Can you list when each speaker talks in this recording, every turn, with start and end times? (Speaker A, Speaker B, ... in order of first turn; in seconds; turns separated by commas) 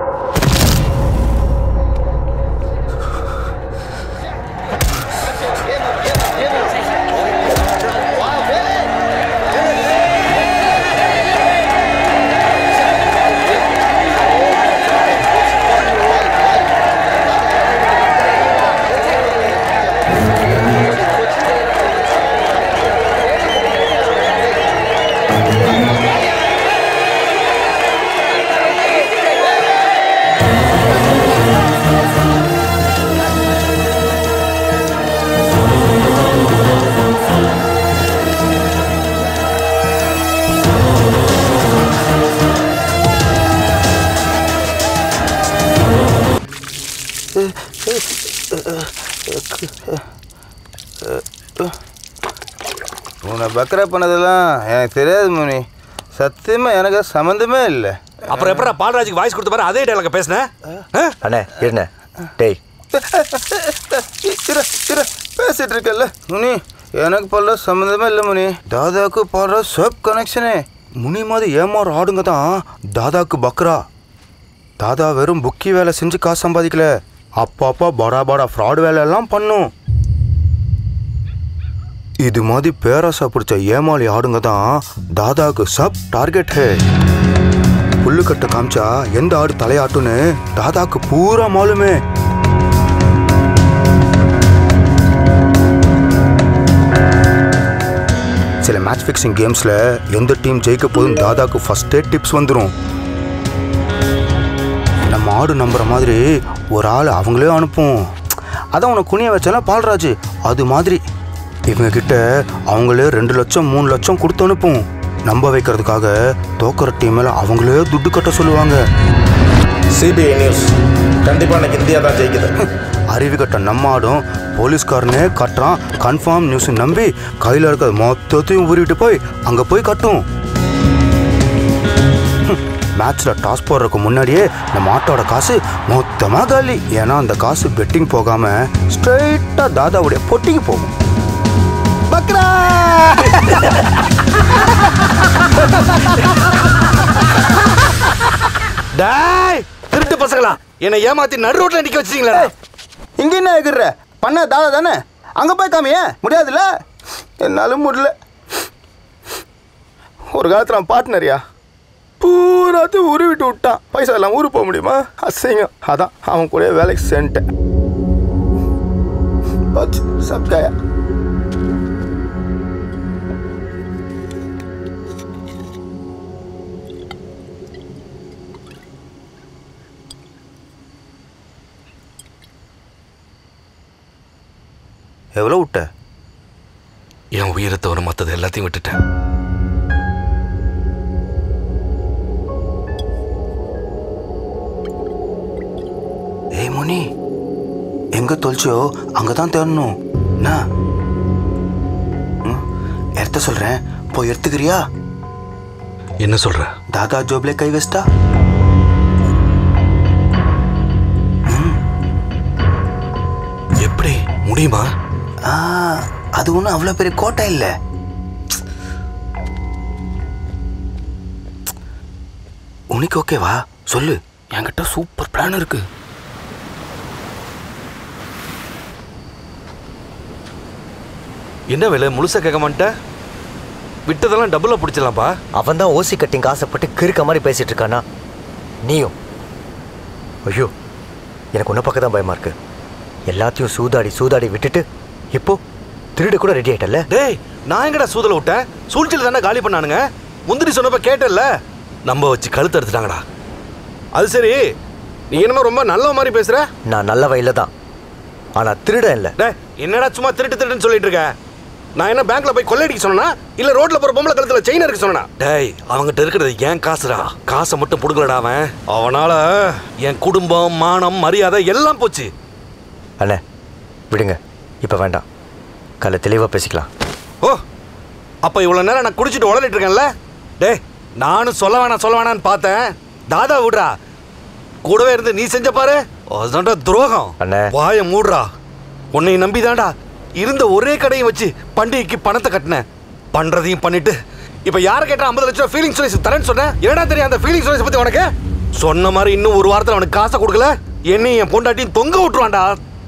Speaker A: 47.4-50.0, Speaker A: 51.0-51.8, Speaker A: 53.2-58.0, Speaker B: 58.3-61.1, Speaker C: 61.2-62.6, Speaker A: 62.9-72.4, Speaker A: 72.9-73.8, Speaker A: 74.8-76.9, Speaker A: 77.4-79.7, Speaker A: 82.2-86.8, Speaker A: 88.0-92.0, Speaker A: 98.6-102.7, Speaker A: 105.1-108.0, Speaker A: 108.7-111.0, Speaker A: 111.7-118.8, Speaker D: 120.0-120.7, Speaker D: 121.2-122.5, Speaker A: 123.1-130.2, Speaker A: 132.5-140.9, Speaker A: 142.1-143.8, Speaker B: 148.9-152.5, Speaker A: 153.2-156.6, Speaker A: 157.4-158.1, Speaker A: 160.3-161.4, Speaker A: 162.2-167.4, Speaker A: 169.7-170.7, Speaker A: 185.3-185.9, Speaker B: 187.3-189.0, Speaker A: 196.6-197.1, Speaker A: 198.1-200.6, Speaker A: 203.2-204.8, Speaker B: 206.2-206.7, Speaker A: 206.9-208.1, Speaker A: 211.5-211.8, Speaker B: 213.8-214.9, Speaker A: 215.5-217.7, Speaker A: 222.9-225.8, Speaker B: 231.7-232.9, Speaker B: 234.1-235.3, Speaker C: 235.5-238.0, Speaker C: 238.8-239.1, Speaker C: 240.4-240.7, Speaker C: 241.5-242.6, Speaker C: 243.3-245.6, Speaker C: 246.2-247.1, Speaker B: 247.1-251.5, Speaker B: 252.1-253.2, Speaker B: 254.1-254.6, Speaker B: 255.3-256.7, Speaker C: 256.9-257.7, Speaker C: 258.6-259.4, Speaker B: 259.4-261.3, Speaker B: 261.9-272.3, Speaker C: 274.1-275.2, Speaker C: 276.0-276.9, Speaker B: 278.4-283.9, Speaker B: 284.8-288.5, Speaker C: 287.4-287.7, Speaker B: 289.1-302.8